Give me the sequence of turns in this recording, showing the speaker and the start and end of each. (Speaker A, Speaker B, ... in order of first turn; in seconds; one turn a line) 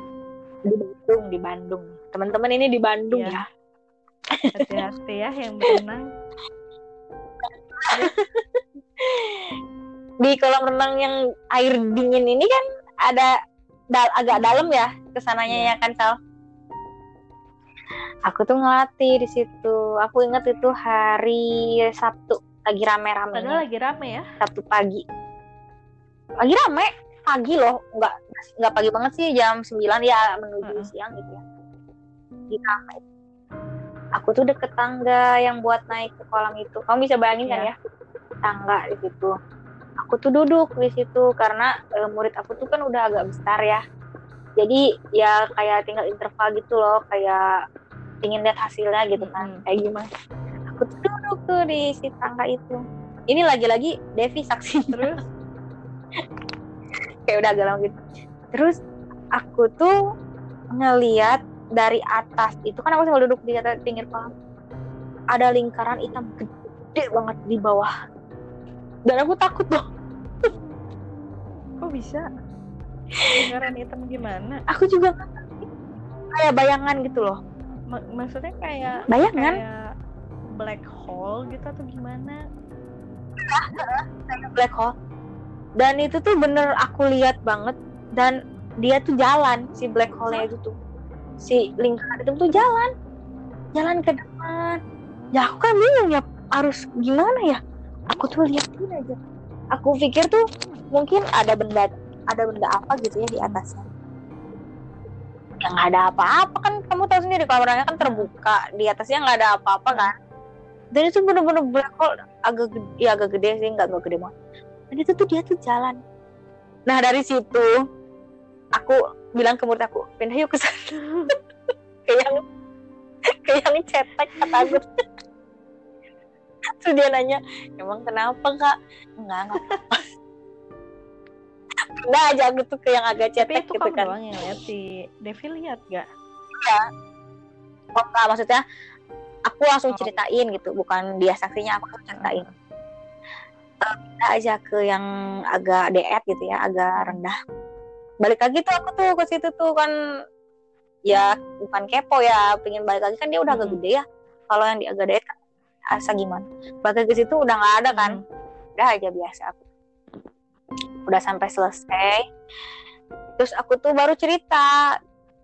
Speaker A: 0.7-3.4
Speaker B: 3.1-3.4
Speaker A: 4.3-4.7
Speaker B: 4.6-6.0
Speaker A: 7.4-9.6
Speaker A: 10.2-13.3
Speaker A: 13.9-16.1
Speaker B: 15.5-15.7
Speaker A: 18.3-23.6
Speaker B: 23.3-24.2
Speaker A: 24.4-25.0
Speaker A: 26.4-31.4
Speaker A: 32.5-33.0
Speaker A: 34.2-37.7
Speaker B: 37.4-37.7
Speaker A: 38.5-39.3
Speaker A: 40.0-43.8
Speaker A: 44.6-47.4
Speaker A: 48.2-50.0
Speaker B: 49.2-49.6
Speaker A: 50.7-55.1
Speaker B: 54.9-55.2
Speaker A: 57.3-58.0
Speaker A: 59.4-59.9
Speaker A: 60.7-64.3
Speaker A: 65.3-67.9
Speaker A: 69.1-69.8
Speaker B: 71.8-72.2
Speaker B: 73.3-74.6
Speaker A: 74.7-75.7
Speaker A: 76.3-77.4
Speaker B: 77.9-79.8
Speaker A: 79.1-79.5
Speaker B: 80.6-82.4
Speaker A: 83.4-84.9
Speaker A: 85.8-90.7
Speaker A: 91.4-92.9
Speaker A: 93.7-94.8
Speaker A: 95.3-97.6
Speaker A: 98.1-99.2
Speaker A: 99.7-100.4
Speaker A: 100.9-103.8
Speaker B: 103.3-103.6
Speaker A: 105.6-110.1
Speaker B: 108.0-108.3
Speaker A: 110.9-114.3
Speaker A: 114.9-116.0
Speaker A: 116.9-117.7
Speaker A: 118.8-120.9
Speaker B: 121.0-121.4
Speaker A: 122.0-122.4
Speaker A: 123.5-124.9
Speaker B: 124.4-124.8
Speaker A: 126.8-130.0
Speaker A: 132.0-134.1
Speaker B: 133.4-136.1
Speaker A: 137.9-138.6
Speaker A: 139.5-142.4
Speaker B: 139.9-140.2
Speaker B: 142.2-142.5
Speaker A: 143.8-147.3
Speaker B: 146.9-147.2
Speaker A: 148.2-149.9
Speaker A: 151.1-155.3
Speaker B: 153.5-153.8
Speaker A: 155.9-158.2
Speaker B: 157.9-158.2
Speaker A: 158.8-159.6
Speaker A: 161.1-162.2
Speaker A: 163.4-164.7